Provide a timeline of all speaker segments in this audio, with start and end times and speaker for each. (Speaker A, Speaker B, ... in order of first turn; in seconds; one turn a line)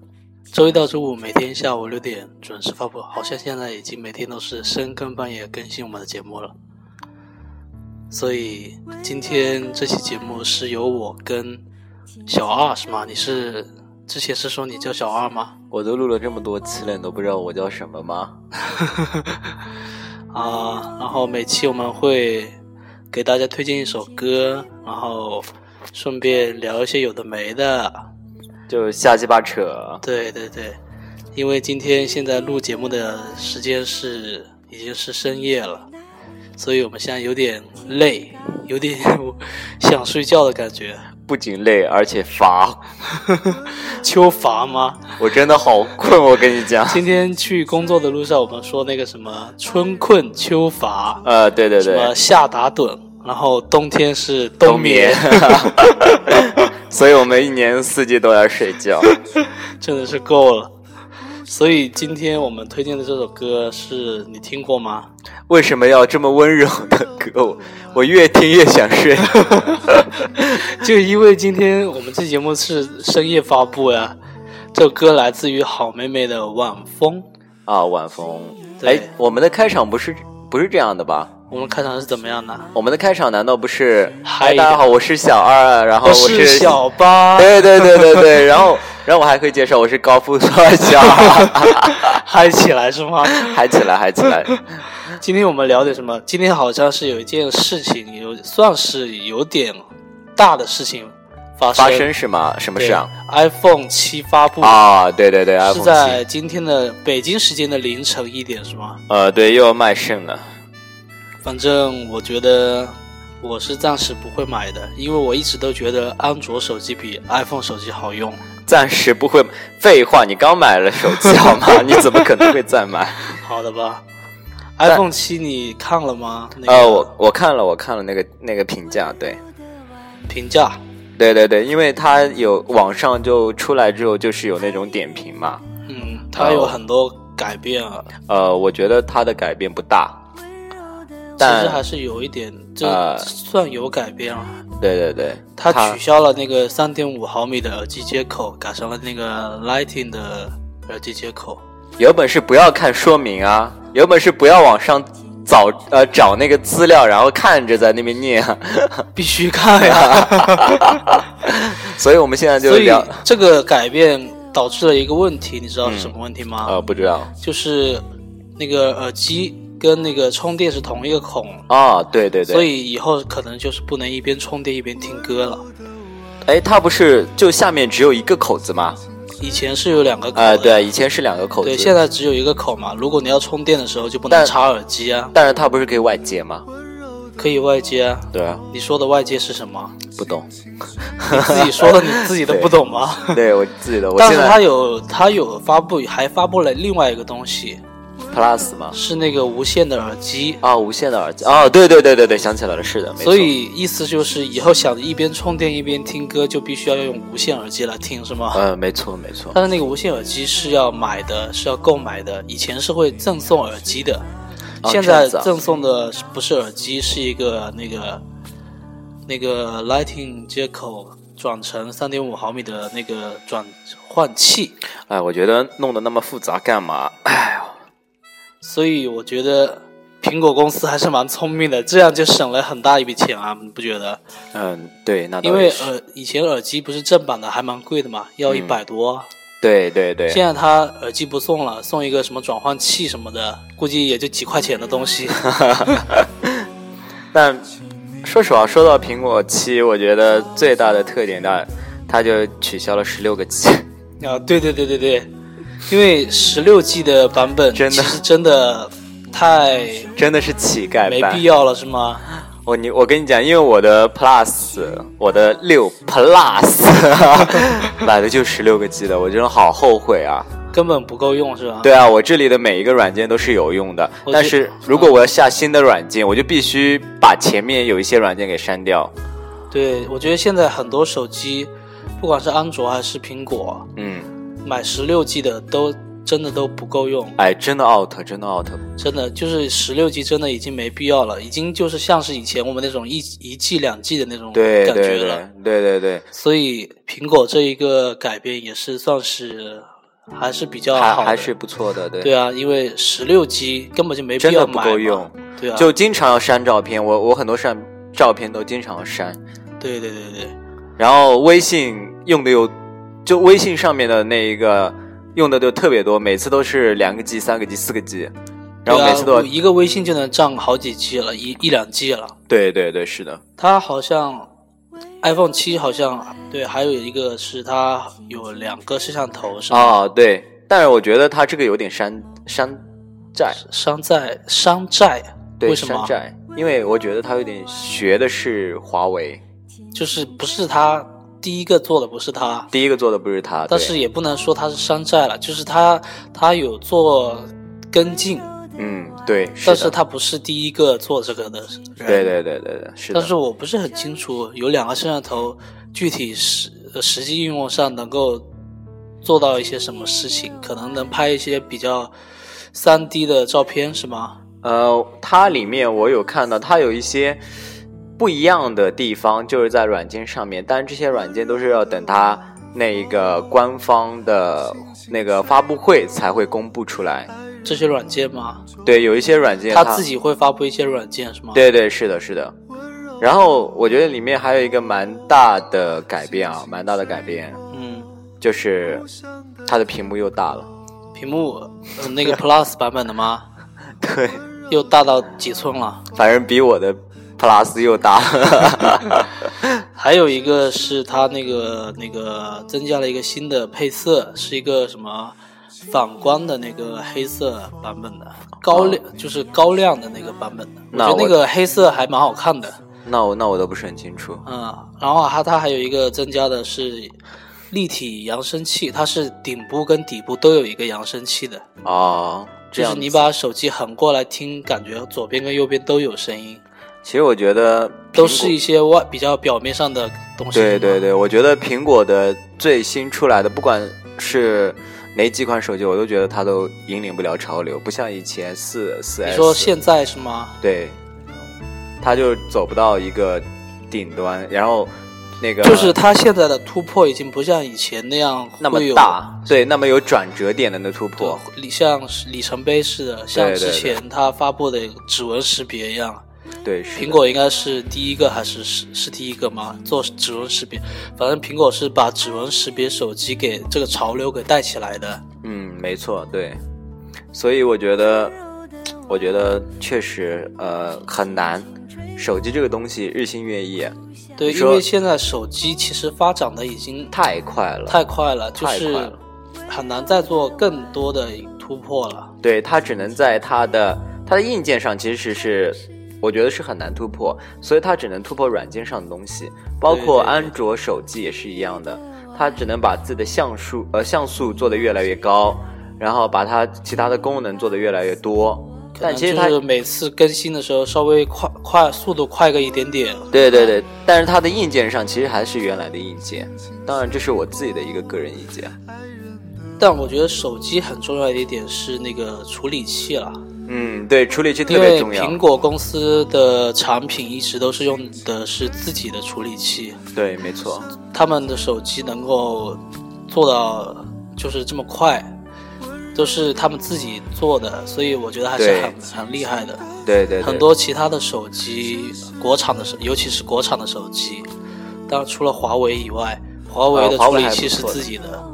Speaker A: 0.5-6.5
Speaker A: 8.1-11.6
Speaker A: 12.2-15.5
Speaker B: 15.7-18.3
Speaker A: 18.7-19.4
Speaker A: 20.3-22.6
Speaker A: 23.1-28.1
Speaker B: 28.7-30.0
Speaker A: 30.0-30.8
Speaker A: 31.3-35.9
Speaker A: 36.6-41.1
Speaker B: 41.2-42.9
Speaker A: 43.1-45.1
Speaker B: 45.2-47.0
Speaker A: 46.9-51.2
Speaker B: 51.2-52.1
Speaker A: 51.8-56.1
Speaker B: 54.6-59.1
Speaker A: 59.4-60.7
Speaker A: 61.5-65.1
Speaker B: 65.5-70.1
Speaker A: 69.4-74.2
Speaker A: 74.7-77.2
Speaker B: 77.7-81.3
Speaker A: 78.8-79.1
Speaker A: 81.5-82.7
Speaker B: 82.7-86.8
Speaker A: 84.2-84.8
Speaker A: 86.0-88.2
Speaker B: 87.3-92.2
Speaker A: 91.2-93.6
Speaker B: 93.3-94.6
Speaker A: 94.9-99.8
Speaker A: 100.3-102.1
Speaker B: 101.8-103.1
Speaker A: 102.8-104.8
Speaker B: 104.6-106.2
Speaker A: 105.6-109.0
Speaker B: 109.1-110.5
Speaker A: 111.4-118.4
Speaker B: 118.7-123.3
Speaker A: 123.3-124.0
Speaker A: 124.8-127.1
Speaker B: 126.7-129.4
Speaker A: 130.3-130.8
Speaker B: 131.2-135.6
Speaker A: 135.9-138.1
Speaker B: 136.3-136.8
Speaker B: 138.3-140.2
Speaker A: 141.4-144.6
Speaker B: 141.4-141.8
Speaker B: 142.8-143.3
Speaker B: 144.8-146.0
Speaker A: 145.6-151.6
Speaker B: 152.0-159.1
Speaker A: 159.1-160.9
Speaker B: 159.8-163.2
Speaker A: 162.6-166.8
Speaker B: 165.8-166.1
Speaker B: 166.6-167.3
Speaker A: 167.4-168.0
Speaker A: 168.6-171.6
Speaker B: 171.7-172.7
Speaker A: 172.5-175.7
Speaker B: 176.4-179.0
Speaker A: 179.4-180.9
Speaker B: 180.3-181.9
Speaker A: 181.6-185.3
Speaker B: 184.3-184.5
Speaker B: 185.3-186.7
Speaker A: 187.4-189.9
Speaker B: 188.3-188.6
Speaker B: 190.2-190.5
Speaker B: 191.2-192.7
Speaker A: 191.3-193.4
Speaker B: 193.3-194.6
Speaker A: 194.1-197.8
Speaker B: 198.3-199.0
Speaker A: 198.9-200.6
Speaker B: 200.6-203.5
Speaker A: 203.2-208.6
Speaker B: 208.5-209.6
Speaker A: 209.5-214.2
Speaker B: 214.8-215.5
Speaker A: 214.8-218.2
Speaker A: 219.3-224.8
Speaker B: 225.1-227.8
Speaker A: 228.6-234.2
Speaker B: 234.5-235.9
Speaker A: 235.4-239.3
Speaker B: 238.5-238.8
Speaker B: 239.6-240.4
Speaker A: 240.3-245.5
Speaker B: 245.4-246.5
Speaker B: 247.3-247.7
Speaker B: 248.2-253.8
Speaker A: 254.2-255.3
Speaker A: 255.9-260.1
Speaker B: 257.7-258.2
Speaker B: 260.1-261.4
Speaker A: 261.1-262.2
Speaker B: 262.6-270.5
Speaker A: 270.7-271.9
Speaker B: 271.8-279.1
Speaker A: 274.2-275.1
Speaker A: 279.7-283.9
Speaker B: 283.9-284.3
Speaker A: 284.6-287.4
Speaker B: 287.4-288.8
Speaker A: 289.0-295.4
Speaker B: 294.5-296.2
Speaker A: 296.3-301.5
Speaker B: 300.9-302.3
Speaker A: 302.2-305.9
Speaker B: 304.4-309.4
Speaker A: 309.8-310.5
Speaker B: 311.0-312.7
Speaker B: 313.2-318.3
Speaker B: 318.8-319.5
Speaker A: 318.9-322.3
Speaker B: 322.5-323.4
Speaker A: 323.6-324.5
Speaker A: 325.2-330.0
Speaker B: 329.7-332.8
Speaker B: 333.3-333.6
Speaker A: 333.6-336.1
Speaker B: 335.6-339.4
Speaker A: 339.9-342.7
Speaker B: 342.7-343.9
Speaker A: 343.7-348.5
Speaker B: 348.8-349.9
Speaker A: 349.6-352.3
Speaker B: 352.0-353.3
Speaker A: 353.1-358.4
Speaker A: 359.2-362.1
Speaker A: 362.7-364.4
Speaker B: 364.6-367.4
Speaker B: 368.2-377.3
Speaker A: 377.6-378.6
Speaker B: 378.8-380.0
Speaker A: 379.7-381.6
Speaker B: 381.5-382.5
Speaker B: 383.2-387.6
Speaker A: 387.7-388.1
Speaker B: 388.4-389.1
Speaker B: 389.6-390.7
Speaker A: 391.1-393.4
Speaker B: 394.0-394.4
Speaker A: 394.7-396.0
Speaker B: 396.1-399.5
Speaker A: 399.9-405.4
Speaker A: 405.9-412.8
Speaker B: 408.7-409.0
Speaker B: 410.9-411.4
Speaker B: 413.1-414.4
Speaker A: 414.4-417.1
Speaker A: 417.7-421.6
Speaker B: 421.8-423.3
Speaker A: 422.7-426.6
Speaker B: 427.0-428.6
Speaker A: 428.1-431.1
Speaker B: 430.5-439.7
Speaker A: 439.2-440.6
Speaker B: 440.6-441.0
Speaker B: 442.0-446.0
Speaker A: 445.6-449.3
Speaker B: 448.6-451.4
Speaker A: 451.2-456.2
Speaker B: 453.3-454.0
Speaker B: 456.6-457.2
Speaker A: 456.9-465.2
Speaker B: 465.4-466.6
Speaker B: 467.3-468.4
Speaker B: 469.1-474.8
Speaker A: 474.4-477.1
Speaker B: 477.1-478.0
Speaker A: 477.9-479.1
Speaker B: 478.5-479.2
Speaker A: 479.7-482.3
Speaker B: 482.4-499.6
Speaker A: 489.9-490.5
Speaker A: 499.0-503.8
Speaker B: 503.3-508.7
Speaker A: 509.8-513.4
Speaker B: 513.7-515.4
Speaker A: 514.7-520.0
Speaker B: 520.1-520.9
Speaker A: 521.1-525.3
Speaker A: 526.1-529.8
Speaker B: 528.5-529.0
Speaker B: 530.0-530.6
Speaker A: 530.4-534.5
Speaker A: 535.1-538.5
Speaker B: 536.9-538.0